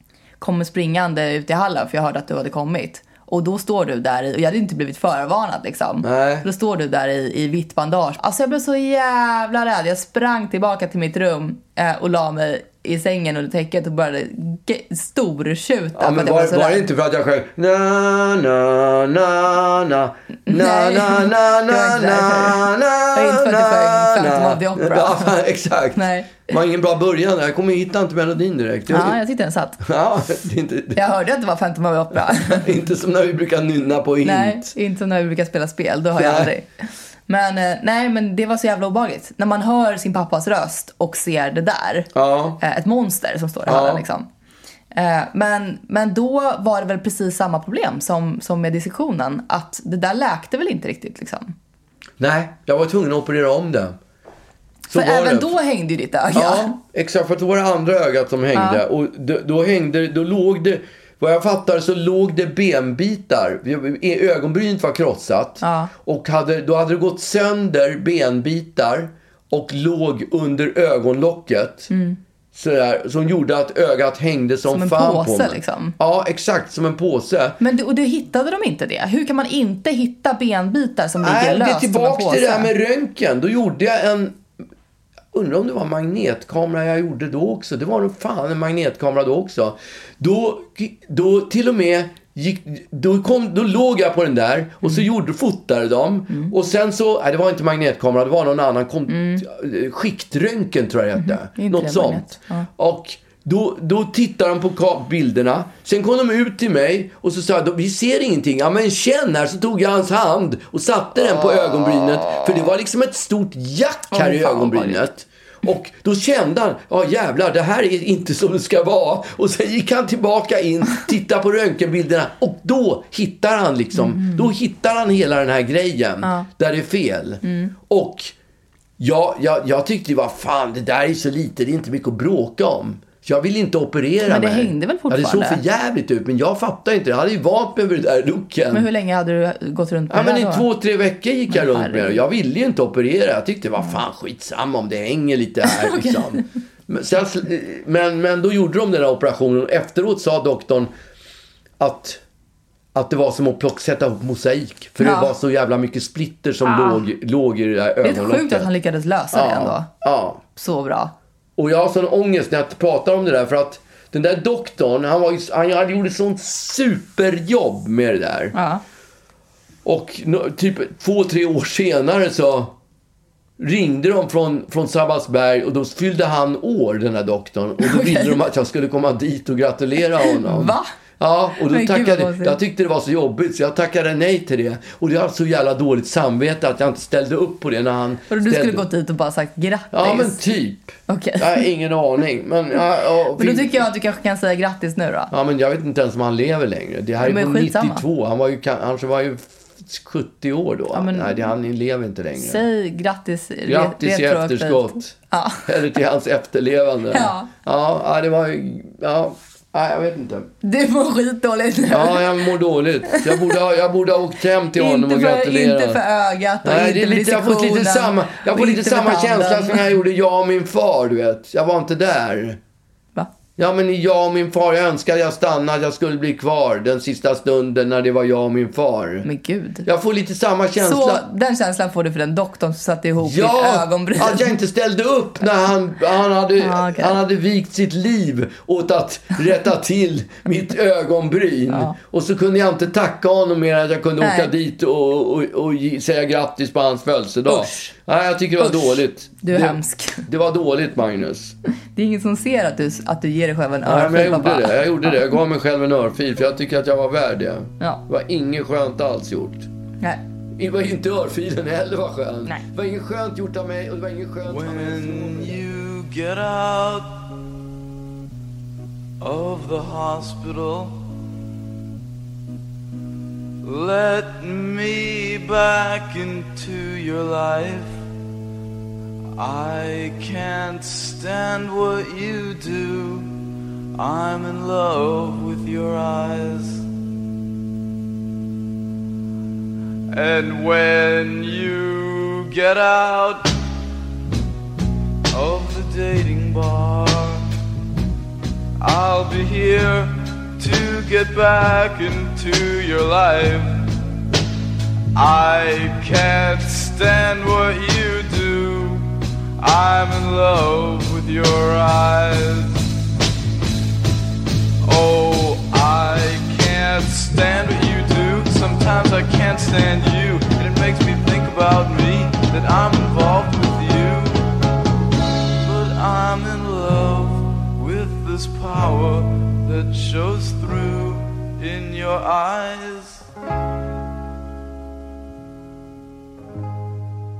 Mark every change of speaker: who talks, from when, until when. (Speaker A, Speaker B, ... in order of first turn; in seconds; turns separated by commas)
Speaker A: 0.4-16.8, Speaker B: 6.0-6.5, Speaker B: 15.9-29.2, Speaker A: 20.5-22.6, Speaker A: 23.1-25.3, Speaker A: 25.9-26.5, Speaker A: 28.9-29.8, Speaker B: 29.8-31.0, Speaker A: 30.9-32.7, Speaker B: 32.4-34.7, Speaker A: 34.2-36.7, Speaker B: 36.1-36.5, Speaker A: 37.3-44.3, Speaker B: 42.1-42.6, Speaker B: 43.6-44.0, Speaker A: 44.9-51.5, Speaker B: 52.2-54.0, Speaker B: 54.9-55.5, Speaker A: 54.9-56.8, Speaker B: 56.3-71.9, Speaker A: 58.5-58.8, Speaker A: 65.6-65.9, Speaker A: 71.9-72.2, Speaker B: 72.5-77.6, Speaker A: 74.7-76.0, Speaker A: 77.6-82.7, Speaker B: 81.2-84.4, Speaker B: 85.3-128.3, Speaker A: 99.1-99.4, Speaker A: 101.2-102.7, Speaker A: 114.1-115.0, Speaker A: 124.0-124.4, Speaker A: 126.2-126.5, Speaker A: 127.4-127.7, Speaker B: 129.0-138.8, Speaker A: 134.2-135.6, Speaker A: 138.7-140.7, Speaker B: 140.1-150.9, Speaker A: 141.5-142.2, Speaker A: 145.8-146.3, Speaker B: 151.8-152.2, Speaker B: 152.9-158.7, Speaker A: 155.0-155.3, Speaker A: 156.6-157.0, Speaker A: 158.0-159.9, Speaker B: 159.3-160.4, Speaker A: 160.5-161.1, Speaker B: 161.6-168.5, Speaker A: 168.5-168.8, Speaker B: 169.8-172.7, Speaker B: 173.6-188.8, Speaker A: 177.8-178.3, Speaker A: 180.3-180.9, Speaker A: 181.7-182.6, Speaker A: 188.3-190.4, Speaker B: 189.9-193.8, Speaker A: 191.1-191.6, Speaker A: 193.4-195.3, Speaker B: 195.3-202.6, Speaker A: 197.2-198.0, Speaker A: 200.9-201.5, Speaker A: 202.4-205.7, Speaker B: 203.7-210.5, Speaker A: 207.1-207.5, Speaker A: 210.6-212.3, Speaker B: 211.9-216.0, Speaker A: 213.2-213.5, Speaker A: 214.8-219.9, Speaker B: 216.6-222.6, Speaker B: 223.6-229.2, Speaker A: 229.2-229.8, Speaker B: 229.8-231.2, Speaker A: 230.8-234.5, Speaker B: 233.2-251.6, Speaker A: 236.6-237.2, Speaker A: 244.2-244.5, Speaker A: 247.5-247.9, Speaker A: 248.6-250.2, Speaker A: 251.9-255.2, Speaker B: 253.8-259.7, Speaker B: 260.6-265.6, Speaker C: 264.5-267.3, Speaker C: 269.2-271.0, Speaker C: 273.6-278.0, Speaker C: 279.4-283.4, Speaker C: 283.9-286.8, Speaker C: 290.1-293.5, Speaker C: 295.3-297.5, Speaker C: 298.8-303.9, Speaker C: 305.1-312.9, Speaker C: 314.8-324.5, Speaker C: 325.5-333.2